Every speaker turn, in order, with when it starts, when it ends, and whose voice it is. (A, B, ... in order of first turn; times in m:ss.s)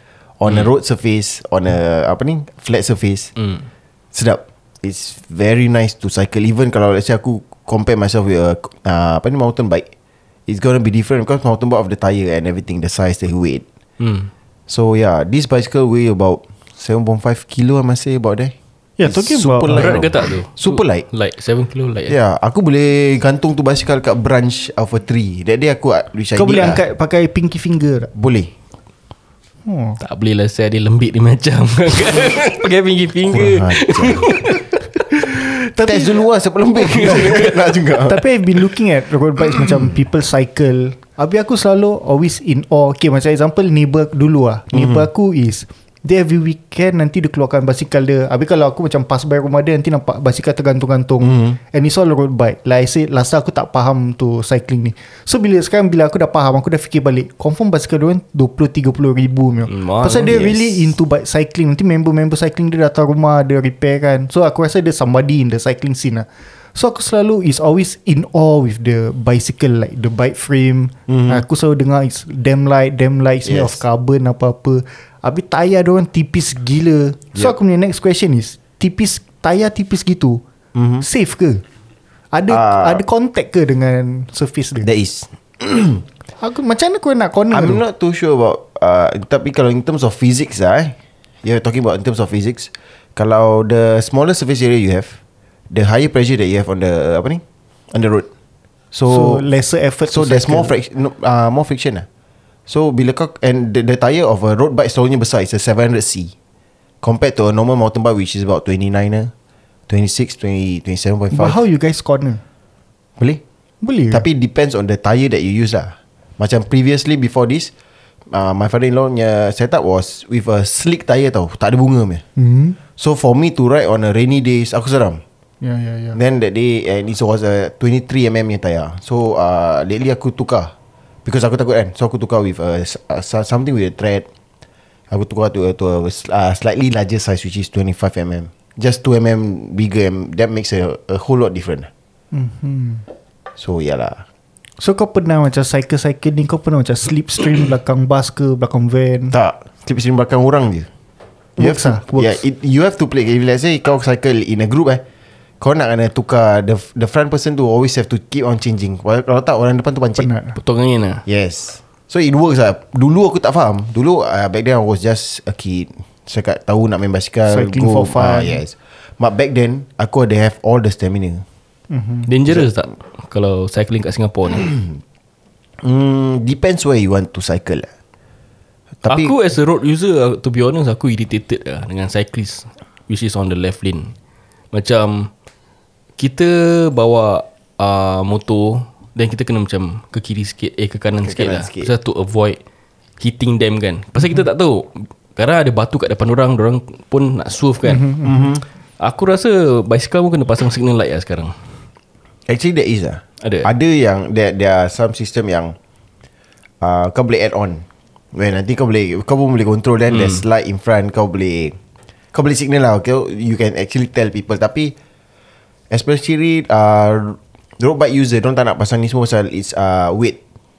0:00.4-0:03.3 A
0:04.1-0:09.9 A
0:10.5-0:13.6 A
0:14.0-0:14.3 B
0:14.7-0:18.5 A
0:19.0-0:20.0 C
0:19.0-0:21.0 A
0:19.7-0:22.2 B
0:22.1-0:26.8 A
0:26.3-0:28.1 C
0:28.1-0:28.5 A
0:29.6-0:30.0 C
0:30.0-0:34.6 B
0:33.3-0:34.3 A
0:35.7-0:36.2 C
0:35.8-0:38.2 A
0:36.9-0:37.4 C
0:37.0-0:37.6 B
0:38.0-1:20.4 C
0:39.6-0:39.8 A
0:44.7-0:45.1 A
0:51.2-0:51.6 A
0:59.7-1:00.6 B
1:00.2-1:00.6 A
1:11.1-1:11.4 A
1:13.4-1:13.8 A
1:20.7-1:21.0 A
1:21.0-1:21.6 C
1:22.3-1:24.9 C
1:22.5-1:23.0 A
1:24.8-1:26.0 A
1:26.4-1:27.8 C
1:27.5-1:35.2 A
1:35.7-1:38.3 A
1:38.9-1:39.4 A
1:39.1-1:40.7 C
1:40.1-1:42.0 A
1:42.7-1:46.3 A
1:47.0-1:49.3 A
1:49.9-1:51.6 A
1:51.3-1:52.4 C
1:53.8-1:54.2 C
1:54.1-1:57.7 A
1:58.3-2:02.2 A
2:02.4-2:02.8 C
2:03.0-2:05.2 A
2:05.6-2:06.2 C
2:06.1-2:10.7 A
2:11.2-2:14.3 A
2:15.1-2:21.9 A
2:22.3-2:23.0 C
2:23.6-2:24.2 A
2:24.8-2:29.3 C
2:29.3-2:30.9 A
2:31.6-2:32.4 C
2:31.6-2:35.0 A
2:35.6-2:40.3 A
2:40.2-2:40.6 C
2:40.6-2:41.2 B
2:41.2-2:51.4 A
2:47.5-2:48.6 C
2:51.9-2:52.3 C
2:52.3-2:54.7 B
2:52.5-2:52.8 A
2:55.8-2:57.9 A
2:59.0-2:59.3 A
2:59.1-3:04.1 B
3:04.7-3:05.3 B
3:06.2-3:12.6 B
3:11.2-3:11.9 A
3:13.2-3:18.2 B
3:17.8-3:18.4 C
3:18.2-3:18.6 A
3:19.0-3:21.5 B
3:22.5-3:25.7 A
3:23.4-3:23.7 B
3:26.8-3:31.8 A
3:30.1-3:30.4 B
3:32.3-3:34.9 A
3:35.9-3:40.4 A